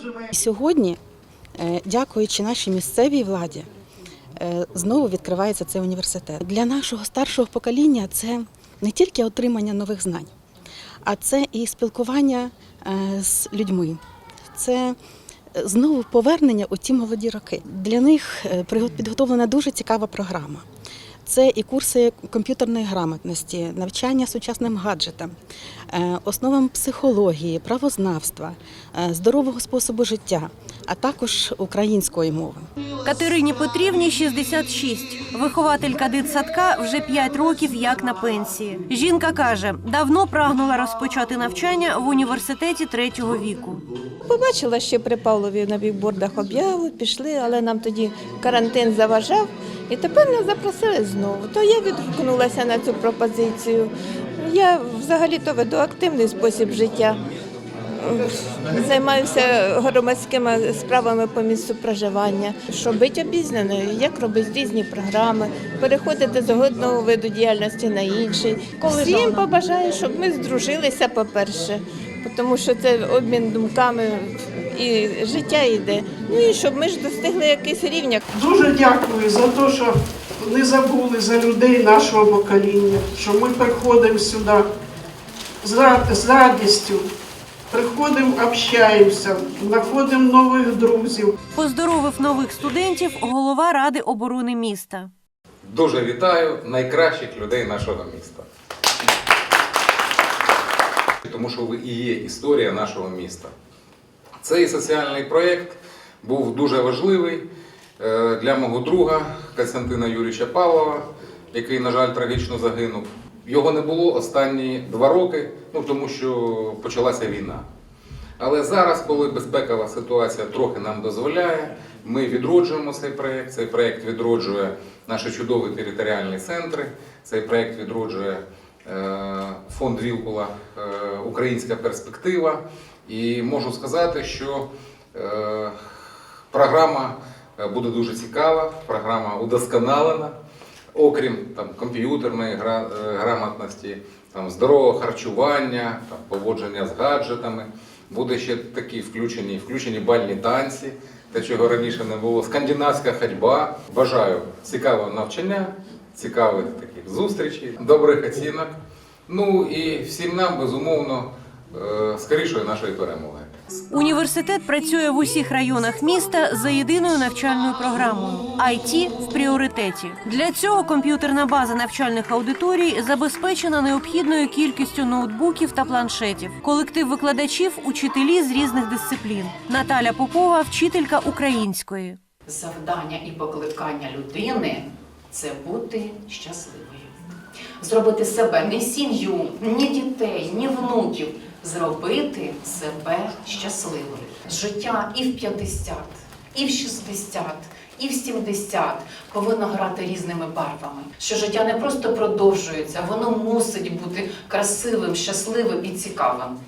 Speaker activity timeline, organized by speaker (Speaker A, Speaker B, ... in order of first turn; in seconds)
Speaker A: 0.3-1.0, 1.6-3.7, 4.4-10.3, 11.1-14.0, 14.6-14.9, 15.6-20.6, 21.3-25.3, 25.9-32.6
Speaker B: 33.0-43.8, 68.8-69.4, 91.5-95.1, 163.9-182.2
Speaker C: 44.2-53.9, 54.4-57.2, 58.0-78.2
Speaker D: 78.3-84.7, 85.6-87.1, 87.7-91.3
Speaker E: 95.7-98.5, 101.2-103.5, 104.4-107.5, 108.0-117.7, 118.4-135.8, 136.5-140.3, 140.9-158.8, 159.3-163.5
Speaker F: 182.5-187.2, 187.8-206.6